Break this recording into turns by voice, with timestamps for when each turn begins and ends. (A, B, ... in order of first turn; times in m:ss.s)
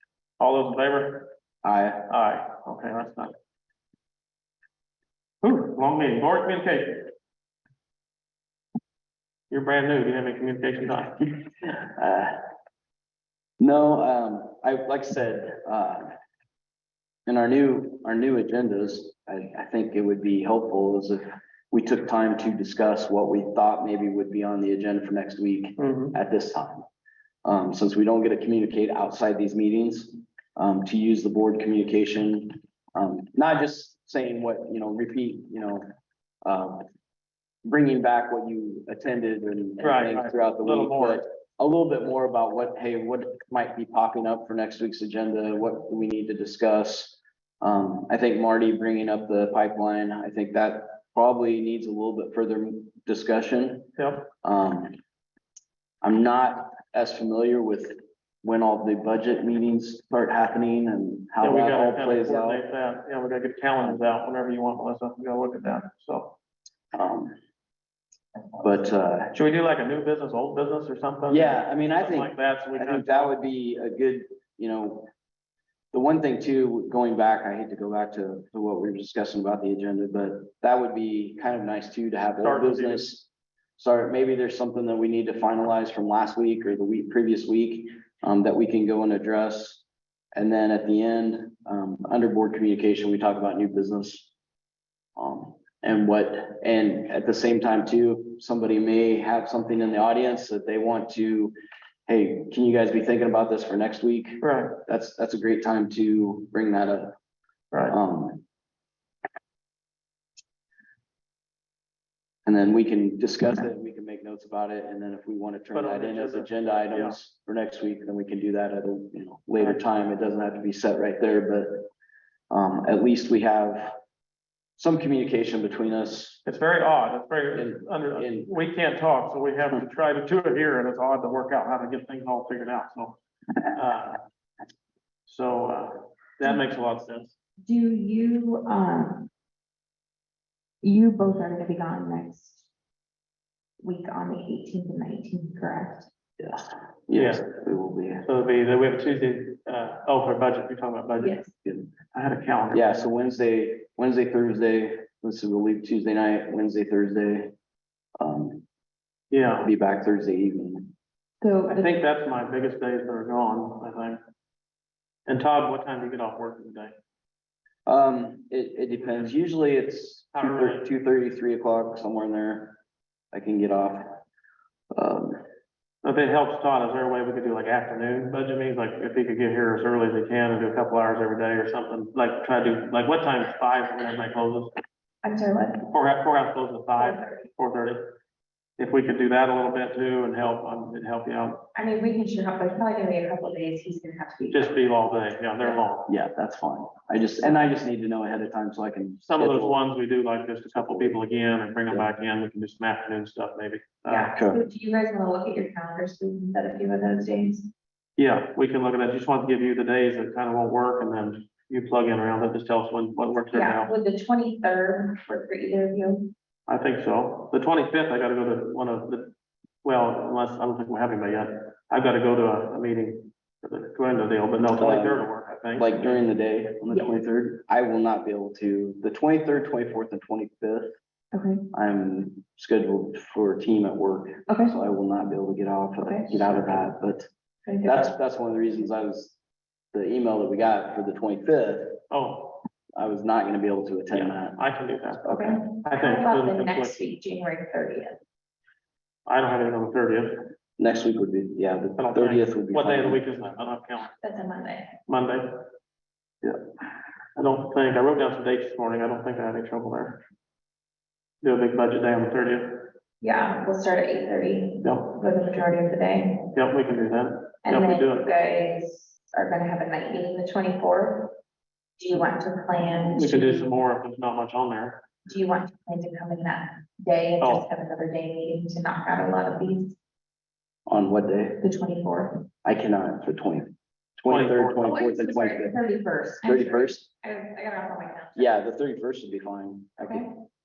0:00.4-0:01.3 A
0:01.6-0:02.1 B
0:02.1-0:03.3 A
0:05.4-0:07.1 A
0:09.5-0:11.2 A
0:11.2-0:12.4 B
0:13.6-0:16.1 B
0:17.2-0:26.8 B
0:25.8-0:26.1 A
0:27.4-0:35.8 B
0:36.4-0:36.8 B
0:37.6-0:53.9 B
0:39.8-0:41.2 A
0:54.0-0:54.3 A
0:54.4-0:55.0 B
0:56.0-1:02.6 B
1:01.4-1:06.4 A
1:06.9-1:07.4 B
1:08.6-1:09.3 B
1:09.3-1:13.3 A
1:11.3-1:15.1 B
1:15.9-1:29.8 B
1:22.4-1:23.1 A
1:30.3-1:34.3 B
1:35.2-1:41.5 B
1:42.1-1:47.1 B
1:44.4-1:44.7 A
1:47.9-1:48.4 B
1:52.4-2:01.9 B
1:55.7-1:57.2 A
2:02.5-2:03.9 B
2:04.8-2:06.4 B
2:06.4-2:14.2 A
2:07.5-2:08.5 B
2:15.3-2:17.3 A
2:17.6-2:19.3 C
2:20.8-2:22.7 C
2:23.8-2:26.1 C
2:26.4-2:28.3 B
2:27.1-2:27.4 A
2:28.2-2:31.4 A
2:31.2-2:31.5 C
2:31.6-2:31.9 B
2:32.1-2:32.8 A
2:32.7-2:37.5 B
2:38.2-2:38.6 B
2:39.3-2:39.7 A
2:39.6-2:40.9 B
2:41.4-2:42.0 C
2:41.7-2:44.2 A
2:45.2-2:46.9 A
2:47.8-2:52.8 B
2:50.3-2:50.9 A
2:53.3-2:54.2 B
2:54.9-2:55.4 B
2:56.0-3:04.7 A
3:05.2-3:05.9 C
3:05.9-3:08.2 A
3:07.0-3:07.5 C
3:08.8-3:11.7 A
3:11.7-3:14.8 C
3:14.5-3:16.1 A
3:16.1-3:19.8 B
3:19.2-3:24.4 A
3:20.7-3:21.2 B
3:24.1-3:27.7 C
3:24.3-3:24.6 B
3:28.2-3:33.9 A
3:33.5-3:36.3 C
3:36.7-3:39.3 A
3:39.8-3:46.2 A
3:44.7-3:50.9 B
3:51.3-3:51.7 C
3:51.7-3:57.3 B
3:54.5-3:54.7 C
3:56.0-3:56.3 C
3:56.4-3:56.9 A
3:57.6-3:58.1 C
3:57.8-3:59.4 B
3:59.9-4:02.0 B
4:02.1-4:02.6 A
4:03.0-4:04.6 B
4:04.1-4:07.0 A
4:05.2-4:05.6 B
4:05.3-4:08.2 C
4:09.2-4:10.4 A
4:10.8-4:13.3 B
4:12.0-4:14.1 A
4:14.2-4:15.0 C
4:15.0-4:15.6 A
4:17.4-4:20.2 A
4:21.4-4:22.9 A
4:23.2-4:26.5 C
4:24.8-4:25.1 A
4:26.5-4:28.3 A
4:27.6-4:31.4 C
4:32.0-4:33.8 C
4:33.1-4:35.1 A
4:35.3-4:40.0 C
4:37.4-4:37.6 A
4:40.8-4:41.6 B
4:41.6-4:42.5 C
4:42.6-4:45.8 B
4:44.3-4:45.0 A
4:44.8-4:48.6 C
4:46.4-4:47.0 B
4:48.4-4:50.2 B